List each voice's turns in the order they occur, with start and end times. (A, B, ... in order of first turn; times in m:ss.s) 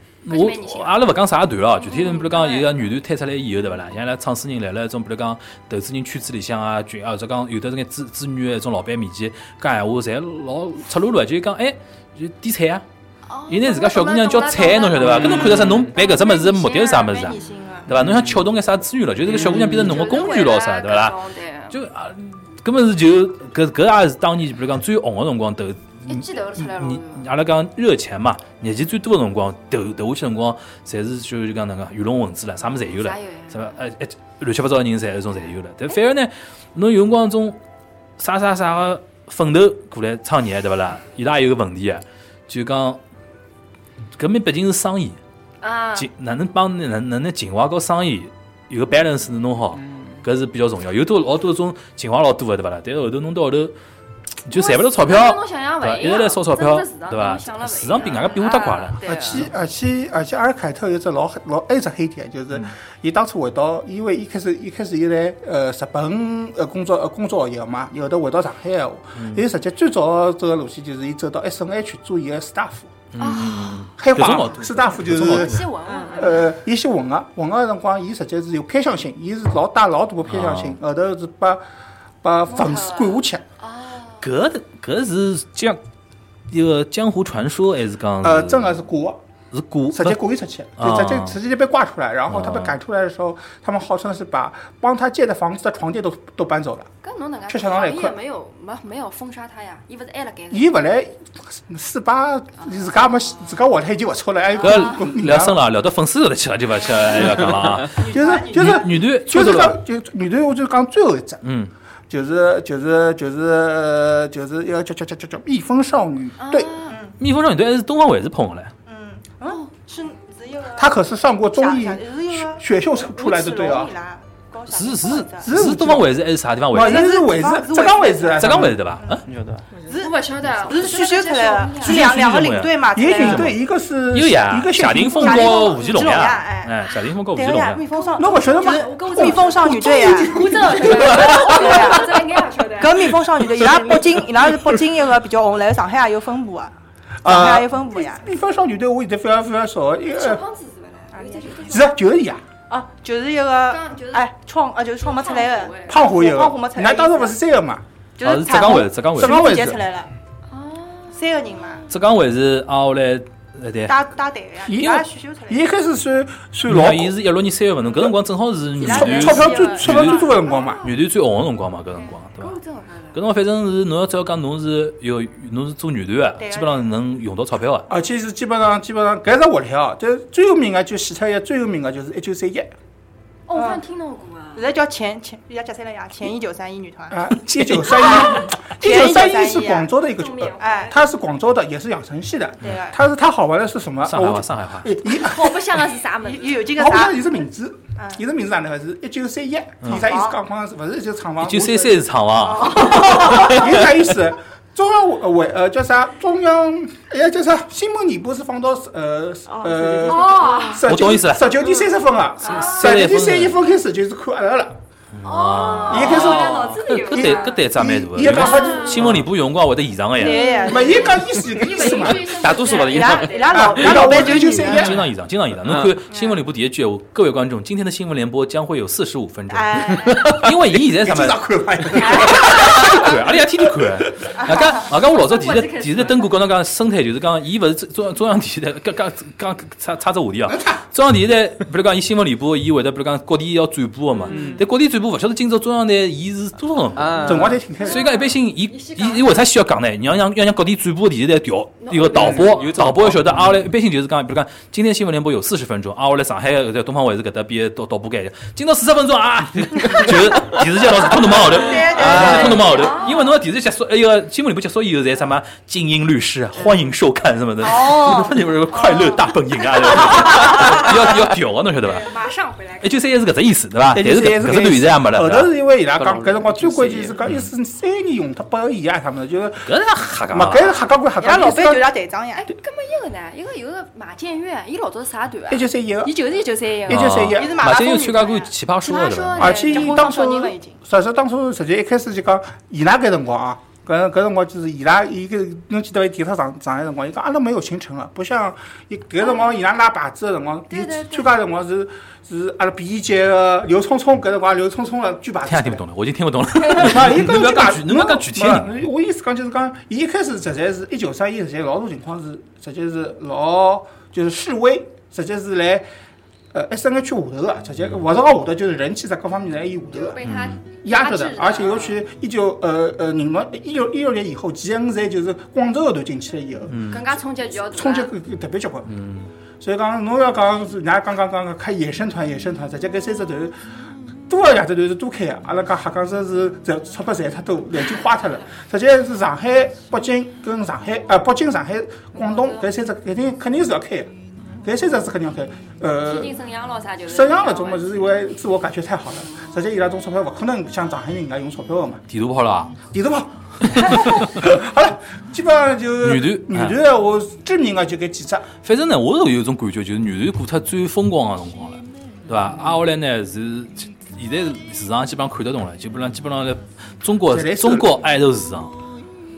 0:00.2-0:12.8 A
0:00.3-0:01.1 B
0:01.8-0:02.8 B
0:13.3-0:17.5 B
0:13.5-0:21.2 A
0:17.3-0:17.9 C
0:19.4-0:19.9 D
0:19.5-0:21.7 B
0:21.7-0:37.6 A
0:26.1-0:27.2 B
0:32.9-0:33.8 B
0:38.2-0:43.0 A
0:44.2-0:45.2 A
0:45.6-0:46.1 B
0:45.9-0:53.8 A
0:54.4-0:59.5 A
0:54.5-0:59.5 B
0:59.0-1:12.9 E
1:09.2-1:09.4 A
1:13.1-1:15.7 A
1:13.2-1:13.9 B
1:14.0-1:21.6 E
1:15.1-1:16.5 B
1:20.2-1:20.8 A
1:22.2-1:23.4 E
1:22.5-1:24.2 B
1:24.2-1:25.8 A
1:26.5-1:28.8 A
1:28.2-1:29.2 E
1:29.5-1:30.2 A
1:29.9-1:36.9 E
1:30.8-1:31.4 A
1:32.3-1:32.7 A
1:37.0-1:40.7 B
1:37.5-1:38.1 E
1:40.5-1:45.6 E
1:44.6-1:45.0 B
1:44.6-1:48.0 A
1:48.0-1:48.9 C
1:48.0-1:51.4 E
1:48.5-1:49.8 A
1:51.4-1:51.7 A
1:52.1-1:56.7 E
1:56.4-1:57.0 B
1:56.9-1:57.2 C
1:57.2-1:58.7 A
1:58.9-2:01.0 C
2:00.8-2:03.9 E
2:01.5-2:05.5 C
2:04.7-2:07.1 A
2:05.4-2:06.2 E
2:06.7-2:08.8 E
2:06.8-2:09.2 C
2:08.4-2:09.2 A
2:09.2-2:09.7 D
2:09.8-2:13.5 C
2:09.9-2:12.0 B
2:11.8-2:13.6 A
2:11.9-2:15.8 E
2:14.1-2:17.8 A
2:15.1-2:16.8 C
2:17.3-2:26.7 C
2:17.9-2:23.1 B
2:18.2-2:22.0 E
2:21.0-2:21.4 A
2:27.2-2:30.4 E
2:27.2-2:28.3 C
2:30.1-2:31.9 B
2:31.1-2:31.5 C
2:31.6-2:32.4 E
2:32.7-2:37.4 C
2:33.7-2:34.3 B
2:35.0-2:36.1 B
2:35.9-2:37.8 E
2:38.2-2:40.1 C
2:38.2-2:39.7 A
2:39.1-2:39.8 E
2:40.5-2:41.9 B
2:41.1-2:41.8 C
2:41.9-2:44.0 A
2:43.9-2:45.6 C
2:44.7-2:47.1 E
2:44.8-2:45.0 A
2:46.7-2:52.6 A
2:48.8-2:50.8 E
2:48.8-2:51.0 B
2:49.0-2:49.3 C
2:52.0-2:53.2 B
2:53.1-2:57.9 A
2:56.4-2:56.9 C
2:57.9-3:02.7 E
3:03.5-3:04.6 B
3:04.5-3:10.0 C
3:07.1-3:15.9 E
3:08.1-3:08.4 B
3:10.2-3:11.0 B
3:10.6-3:11.0 C
3:12.6-3:13.0 C
3:14.1-3:14.9 A
3:15.1-3:16.8 B
3:16.2-3:17.3 C
3:16.7-3:34.8 E
3:19.9-3:20.4 C
3:21.4-3:24.0 A
3:22.4-3:23.6 C
3:30.0-3:30.8 B
3:30.8-3:31.5 A
3:32.4-3:32.8 B
3:32.4-3:33.6 A
3:35.1-3:40.5 A
3:35.2-3:37.6 B
3:35.8-3:39.2 E
3:36.0-3:36.8 D
3:38.2-3:39.2 B
3:40.2-3:41.2 C
3:40.2-3:43.8 B
3:40.6-3:42.7 E
3:42.2-3:44.1 D
3:42.8-3:45.0 C
3:43.5-3:45.1 E
3:44.5-4:32.1 A
3:45.6-3:46.0 D
3:46.1-3:46.4 C
3:49.5-3:50.2 C
3:49.9-3:50.3 B
3:50.0-3:50.4 D
3:50.7-3:54.4 E
3:52.0-3:52.4 C
3:52.1-3:53.0 B
3:54.6-3:56.4 B
4:00.5-4:00.8 E
4:04.1-4:04.6 B
4:04.3-4:04.6 D
4:07.0-4:07.6 D
4:07.2-4:08.0 E
4:07.8-4:09.4 B
4:11.8-4:12.8 B
4:12.1-4:13.4 D
4:21.2-4:23.0 C
4:21.4-4:23.4 B
4:27.6-4:28.4 C
4:28.7-4:29.2 B
4:30.2-4:30.8 B
4:30.2-4:31.0 C
4:31.9-4:32.4 C
4:31.9-4:32.9 B
4:32.8-4:35.5 A
4:33.9-4:39.8 E
4:36.0-4:37.2 D
4:37.2-4:37.5 A
4:39.6-4:40.8 A
4:40.3-4:41.9 E
4:41.2-4:42.5 C
4:42.4-4:47.6 B
4:45.5-4:46.3 E
4:46.8-4:47.6 E
4:46.9-4:49.6 A
4:47.3-4:50.8 C
4:48.8-4:50.3 B
4:49.3-5:05.8 E
5:00.7-5:01.3 B
5:05.4-5:08.7 A
5:06.6-5:15.9 E
5:16.5-5:20.2 E
5:19.9-5:22.0 B
5:20.2-5:20.6 A
5:20.8-5:27.0 E
5:26.7-5:27.0 A
5:26.9-5:28.1 B
5:27.5-5:28.9 E
5:28.9-5:29.3 A
5:29.6-5:33.6 E
5:34.3-5:46.4 E
5:42.2-5:42.6 B
5:46.0-5:48.1 B
5:47.0-5:52.0 E
5:52.1-5:52.7 A
5:52.9-5:58.5 E
5:53.8-5:54.2 A
5:56.0-5:56.8 A
5:58.6-6:08.7 A
6:07.3-6:08.0 E